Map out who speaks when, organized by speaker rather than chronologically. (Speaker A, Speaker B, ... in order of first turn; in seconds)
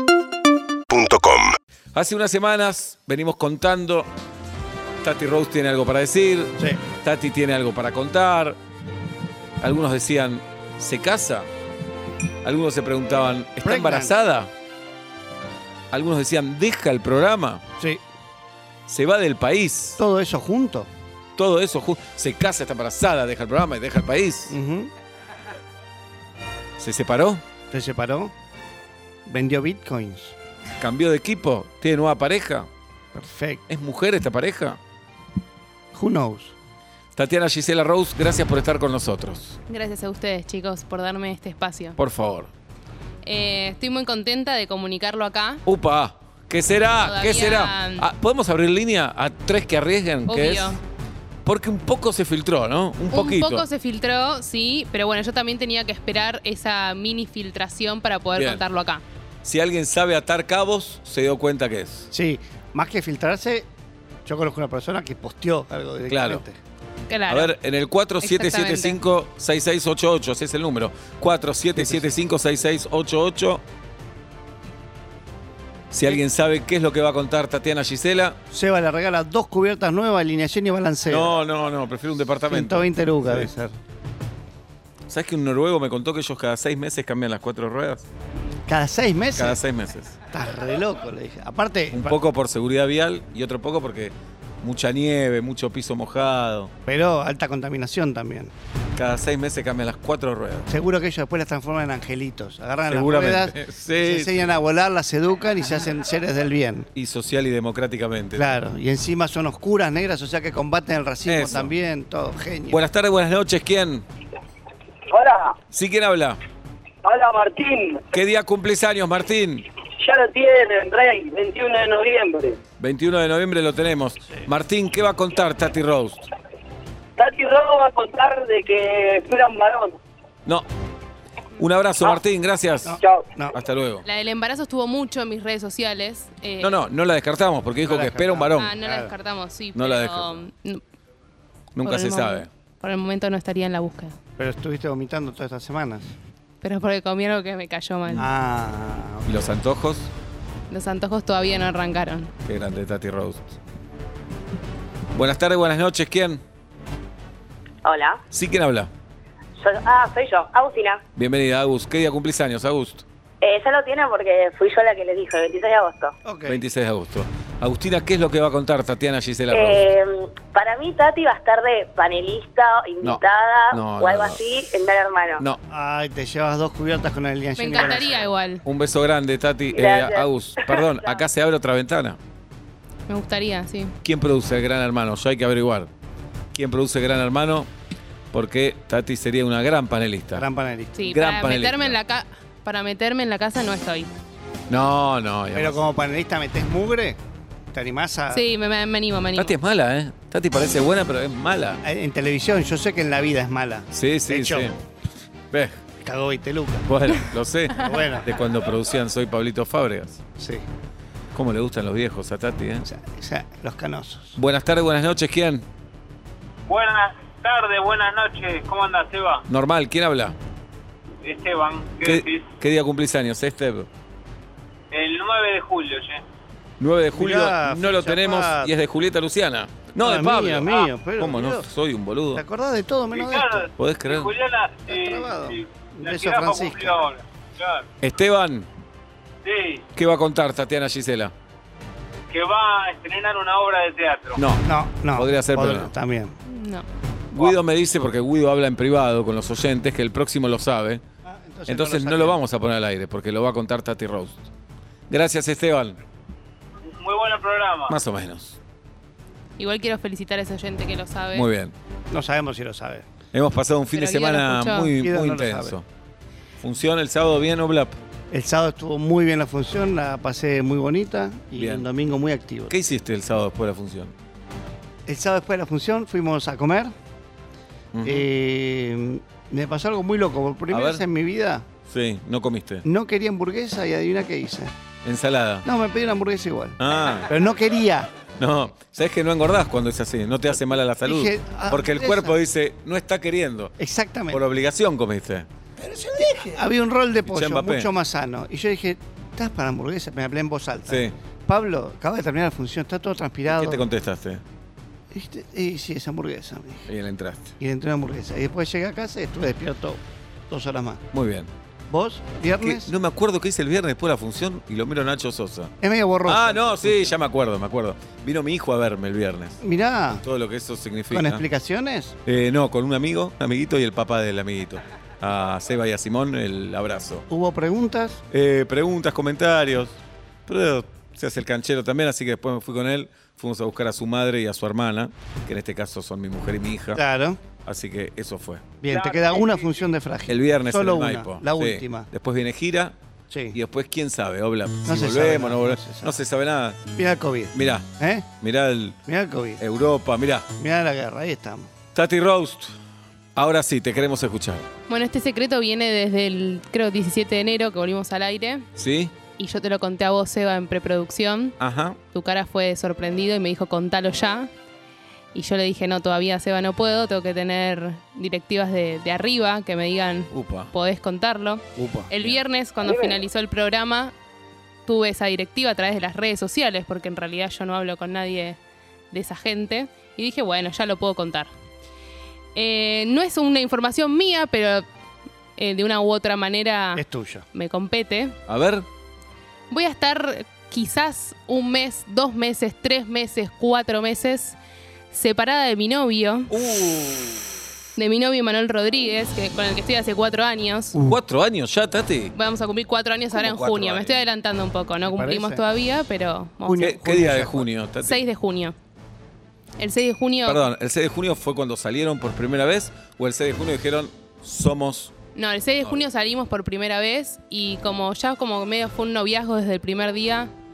Speaker A: 0.9-1.6, 157.8-158.2, 159.6-161.0, 163.4-166.1, 169.5-175.4, 179.7-181.2
Speaker B: 1.9-4.1, 5.0-8.6, 9.6-11.5, 12.4-14.5, 15.9-17.6, 18.9-20.0, 21.4-24.5, 26.8-27.4, 30.8-32.7, 33.7-34.8, 37.2-39.6, 42.0-42.5, 45.7-50.8, 51.5-53.7, 58.4-58.6, 59.4-62.1, 66.1-66.4, 67.3-73.6, 75.9-78.4, 81.1-83.5, 85.1-88.0, 89.4-90.2, 91.9-96.7, 99.0-100.7, 102.9-104.5, 107.0-108.5, 111.3-111.7, 112.7-114.1, 115.7-116.4, 118.1-119.7, 122.8-126.2, 131.6-133.0, 133.5-134.1, 136.6-138.8, 139.8-140.4, 141.8-142.5, 149.2-150.1, 152.4-153.6, 155.1-156.4, 158.3-158.9, 161.2-163.0, 166.5-169.9, 173.0-174.4, 178.7-182.2, 184.0-185.9, 186.5-187.7, 188.3-190.5, 191.1-192.0, 194.7-195.8, 199.3-201.8, 203.9-204.8, 205.5-205.8, 206.9-210.2, 211.3-212.9, 214.4-215.7, 219.5-220.4, 222.0-223.9, 226.8-232.4, 233.8-234.3, 238.0-238.7, 240.0-241.3, 244.4-245.9, 247.3-251.0, 251.7-254.4, 255.1-256.0, 257.9-258.6, 261.3-261.7, 263.3-265.9, 266.6-268.0, 271.6-271.9, 272.7-274.1, 277.9-278.2, 280.7-281.0, 281.9-282.9, 285.1-285.7, 286.8-287.3, 288.4-293.7, 294.3-295.5, 297.3-297.9, 300.9-301.1, 303.5-304.4, 306.9-307.5, 311.1-311.5, 312.6-315.7, 316.2-319.6, 320.2-321.4, 322.3-327.2, 328.3-330.0, 330.5-337.0, 337.6-338.7, 340.3-342.9, 343.5-346.8, 347.5-347.9, 348.4-349.0, 349.6-350.5, 351.9-352.7, 353.4-354.7, 358.8-359.1, 361.6-362.0, 370.3-370.7, 388.5-388.9, 396.5-397.4, 400.9-402.3, 403.4-404.1, 406.8-408.2, 410.4-415.1
Speaker C: 13.6-14.1, 20.0-20.9, 24.5-24.9, 27.7-28.3, 29.3-30.4, 33.1-33.6, 35.9-36.5, 62.1-63.7, 64.3-66.6, 71.8-72.0, 78.5-81.3, 82.5-83.7, 88.7-89.6, 90.3-92.2, 96.9-98.5, 100.7-106.9, 108.3-112.8, 132.8-133.6, 137.8-139.1, 144.4-146.1, 148.2-149.3, 166.2-166.6, 175.7-178.3, 190.3-191.0, 195.5-197.2, 197.7-198.4, 201.8-204.7, 206.0-206.9, 207.8-208.3, 210.4-210.7, 212.8-214.4, 227.1-228.7, 230.0-231.7, 232.3-233.7, 234.9-237.1, 244.7-246.4, 251.2-252.4, 262.1-263.1, 265.0-265.8, 268.3-272.7, 275.1-276.9, 278.0-281.7, 282.8-284.7, 285.6-288.1, 291.0-292.4, 293.8-294.4, 295.8-303.9, 305.1-306.9, 307.6-311.0, 311.9-312.9, 315.8-317.1, 319.6-320.2, 321.1-322.1, 327.3-328.2, 336.9-337.4, 338.8-342.1, 343.3-343.6, 344.9-346.2, 347.0-348.3, 349.1-349.6, 350.6-351.7, 371.8-372.1, 386.9-387.5, 405.1-405.6, 406.6-407.7
Speaker D: 39.7-42.0, 43.2-45.6, 47.0-48.0, 50.3-50.8, 53.1-59.0, 67.1-67.5, 68.2-69.0, 134.1-136.7, 138.5-140.8, 141.8-144.2, 146.6-148.3, 150.7-152.3, 177.6-178.6, 183.1-183.9, 190.9-194.1, 198.3-199.6, 246.5-246.9, 259.6-261.5, 263.9-264.9, 354.9-358.7, 359.4-361.6, 362.1-364.5, 365.3-374.1, 374.9-378.6, 379.1-381.5, 382.6-384.9, 385.6-388.4, 389.7-394.6, 395.1-396.5, 398.0-401.0, 402.3-407.0, 408.0-408.8, 409.8-410.7, 415.4-420.5
Speaker E: 115.1-115.6, 117.0-118.0, 120.0-122.6, 127.2-130.0, 133.0-133.3
Speaker F: 216.7-219.4, 221.2-222.5, 224.9-226.2, 233.1-237.9, 239.4-239.8, 242.3-244.4, 256.9-257.9, 338.9-339.7